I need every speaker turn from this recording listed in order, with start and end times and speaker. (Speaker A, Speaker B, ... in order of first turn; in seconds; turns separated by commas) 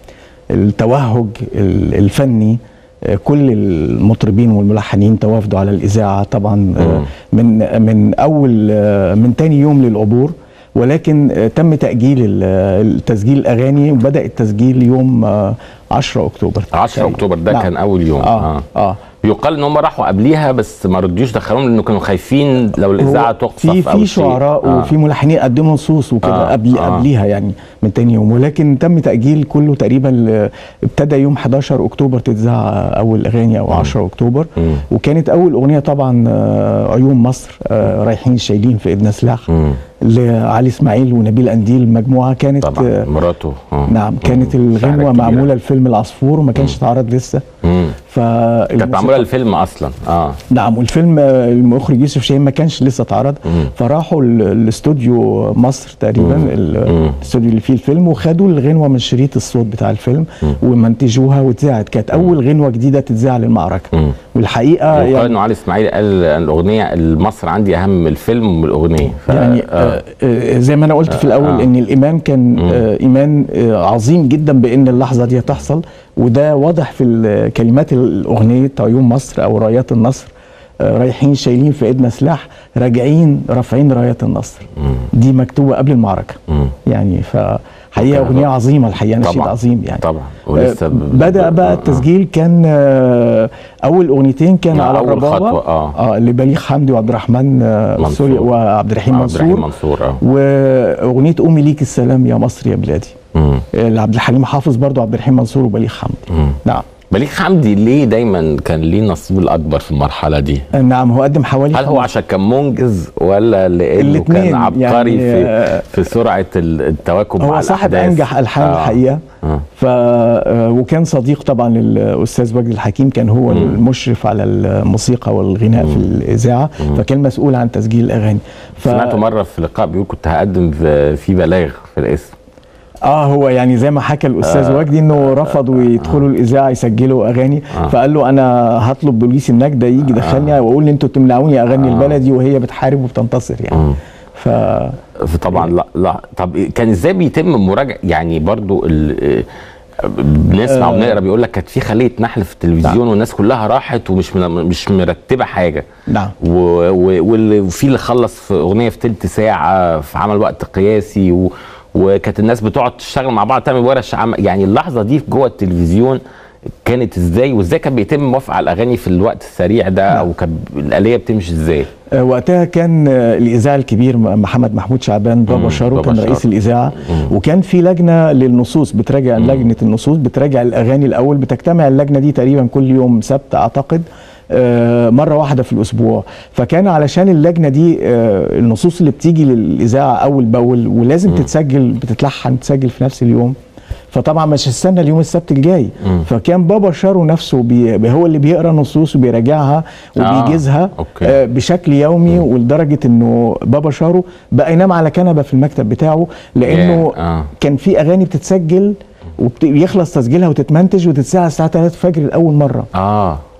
Speaker A: 0.5-19.0, Speaker B: 6.8-7.1, Speaker B: 16.7-18.6, Speaker B: 19.2-24.9, Speaker A: 23.0-39.5, Speaker B: 26.2-27.1, Speaker B: 33.7-33.9, Speaker B: 34.6-34.8, Speaker B: 39.5-39.8, Speaker A: 40.0-43.1, Speaker B: 42.6-45.5, Speaker A: 43.9-47.4, Speaker B: 47.6-48.0, Speaker A: 48.1-49.3, Speaker B: 48.8-50.4, Speaker A: 50.5-65.4, Speaker B: 56.2-57.2, Speaker B: 64.9-70.0, Speaker A: 69.3-90.0, Speaker B: 71.1-71.7, Speaker B: 88.0-88.5, Speaker B: 89.2-92.1, Speaker A: 90.5-99.7, Speaker B: 94.7-96.0, Speaker B: 98.0-98.5, Speaker B: 99.1-100.2, Speaker A: 100.2-103.2, Speaker B: 103.3-103.7, Speaker A: 103.7-106.8, Speaker B: 106.3-106.6, Speaker B: 107.1-110.7, Speaker A: 110.7-112.1, Speaker B: 111.7-119.6, Speaker A: 114.0-116.0, Speaker A: 117.4-119.2, Speaker A: 119.8-129.2, Speaker B: 123.5-123.8, Speaker B: 125.8-126.0, Speaker B: 128.8-132.3, Speaker A: 133.1-145.0, Speaker B: 134.4-136.2, Speaker B: 140.1-140.6, Speaker B: 141.8-142.2, Speaker B: 143.7-144.0, Speaker B: 145.2-149.5, Speaker B: 150.0-155.8, Speaker A: 150.7-151.2, Speaker A: 156.1-156.3, Speaker B: 156.4-166.2, Speaker B: 166.8-171.9, Speaker A: 172.1-193.5, Speaker B: 175.5-176.4, Speaker B: 177.0-177.3, Speaker B: 179.4-179.7, Speaker A: 194.1-212.9, Speaker B: 200.2-201.3, Speaker B: 206.7-207.5, Speaker B: 212.9-213.4